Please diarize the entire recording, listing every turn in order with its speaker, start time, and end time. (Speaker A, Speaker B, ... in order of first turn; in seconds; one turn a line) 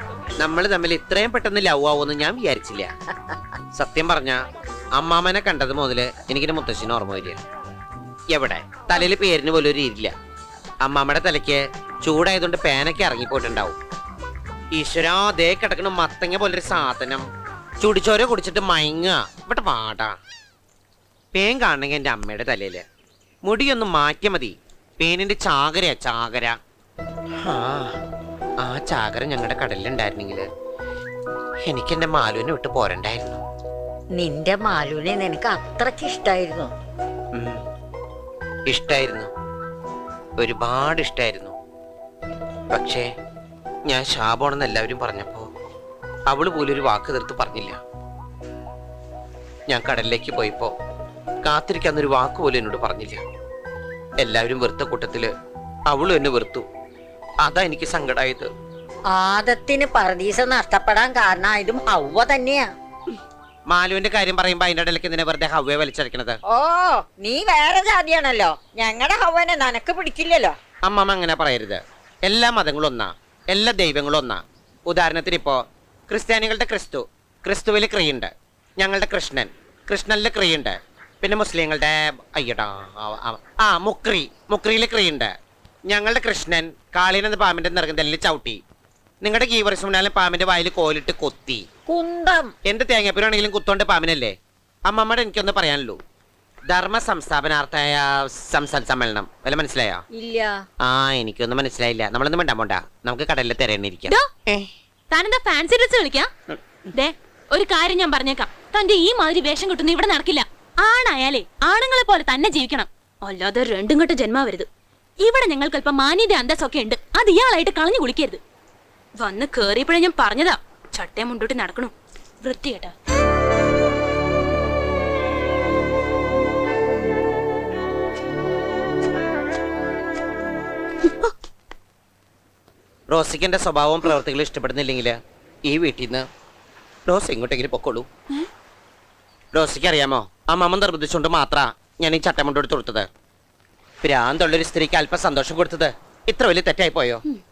Speaker A: 0.4-2.9
Speaker A: 3.7-4.4
Speaker A: 5.0-7.4
Speaker A: 8.3-10.1
Speaker A: 10.8-13.8
Speaker A: 14.8-17.2
Speaker A: 17.8-20.1
Speaker A: 21.3-22.8
Speaker A: 23.4-26.6
Speaker A: 27.4-27.9
Speaker A: 28.6-30.4
Speaker A: 31.6-33.4
Speaker B: 34.1-36.7
Speaker A: 37.3-37.6
Speaker A: 38.7-39.3
Speaker A: 40.4-41.5
Speaker A: 42.7-43.0
Speaker A: 43.9-45.5
Speaker A: 46.3-47.8
Speaker A: 49.7-50.7
Speaker A: 51.4-53.2
Speaker A: 54.2-55.3
Speaker A: 55.9-56.6
Speaker A: 57.4-58.5
Speaker B: 59.1-62.7
Speaker A: 63.7-66.4
Speaker B: 66.5-70.5
Speaker A: 70.8-85.3
Speaker A: 85.9-88.6
Speaker A: 89.2-91.6
Speaker B: 91.9-92.5
Speaker A: 92.7-94.3
Speaker A: 94.9-96.0
Speaker A: 96.7-100.0
Speaker B: 100.1-100.6
Speaker A: 100.8-104.7
Speaker C: 105.1-106.3
Speaker C: 106.9-114.7
Speaker C: 115.2-118.4
Speaker C: 119.2-122.9
Speaker A: 133.1-136.2
Speaker A: 137.1-138.1
Speaker A: 139.5-143.1
Speaker A: 144.0-147.2